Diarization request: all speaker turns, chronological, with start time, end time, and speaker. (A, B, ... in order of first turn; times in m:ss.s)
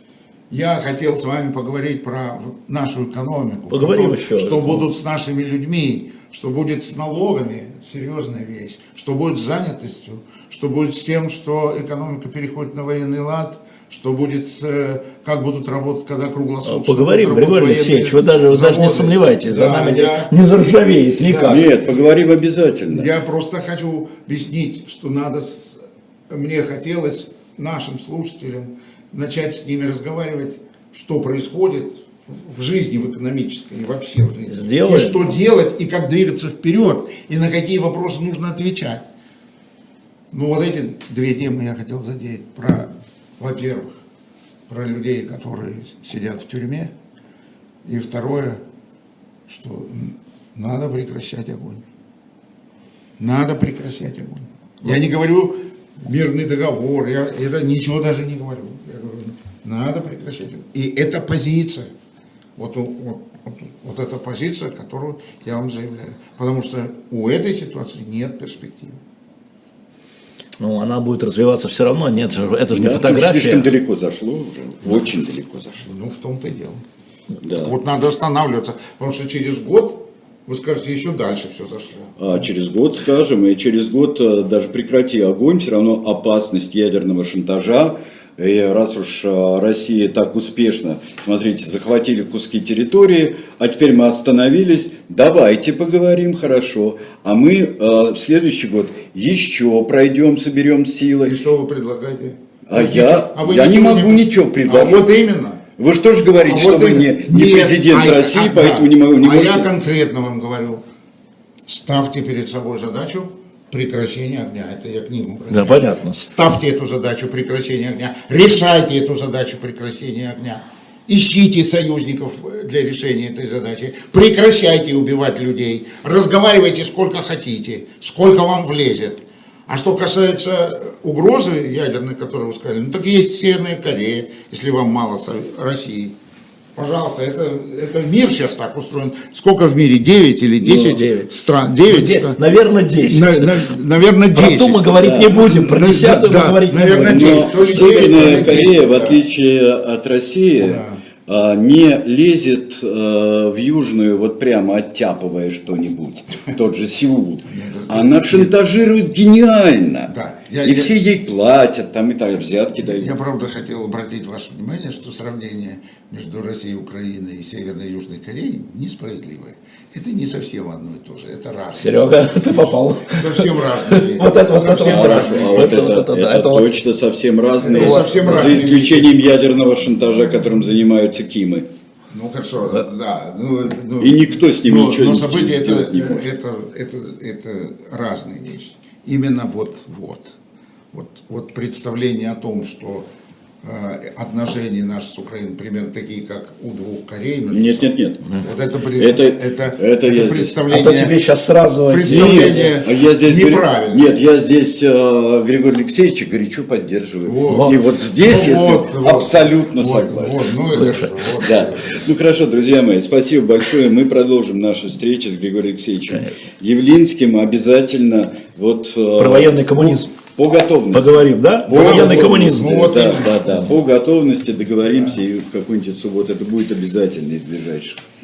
0:00.5-0:20.4 A
0:03.7-0:04.8 B
0:16.7-0:21.7 B
0:21.2-0:22.1 A
0:21.4-0:23.1 C
0:22.9-0:39.0 A
0:34.5-0:35.4 B
0:40.3-0:44.0 A
0:44.7-0:46.9 A
0:47.8-0:48.6 A
0:49.5-0:51.9 A
0:53.2-1:01.9 A
1:02.6-1:09.0 A
1:10.6-1:13.7 B
1:12.7-1:15.9 C
1:15.8-1:16.8 A
1:17.4-1:17.7 C
1:17.4-1:22.2 A
1:22.2-1:41.4 C
1:41.2-1:45.6 A
1:42.7-1:45.1 C
1:45.8-1:49.7 C
1:46.4-1:50.8 A
1:51.7-2:16.2 A
1:55.5-1:56.4 B
2:16.8-2:22.4 A
2:20.6-2:21.3 B
2:21.8-2:23.7 B
2:23.0-2:29.2 A
2:24.3-2:27.7 B
2:25.0-2:25.4 C
2:27.1-2:43.1 C
2:30.6-2:31.0 A
2:37.5-2:38.5 A
2:40.1-2:41.0 A
2:42.8-2:55.8 A
2:51.8-2:56.8 B
2:54.7-3:01.7 C
2:57.6-2:59.2 A
2:57.8-2:58.6 B
3:02.1-3:10.3 A
3:04.0-3:06.2 C
3:10.9-3:13.1 A
3:13.6-3:21.2 A
3:17.5-3:18.4 C
3:19.0-3:20.7 C
3:20.7-3:22.7 B
3:21.9-3:24.1 A
3:22.1-3:30.6 C
3:27.2-3:32.1 A
3:27.5-3:27.8 B
3:30.7-3:31.3 B
3:31.4-3:48.0 C
3:36.1-3:36.4 B
3:39.2-3:40.1 B
3:40.9-3:43.3 B
3:41.7-3:43.7 A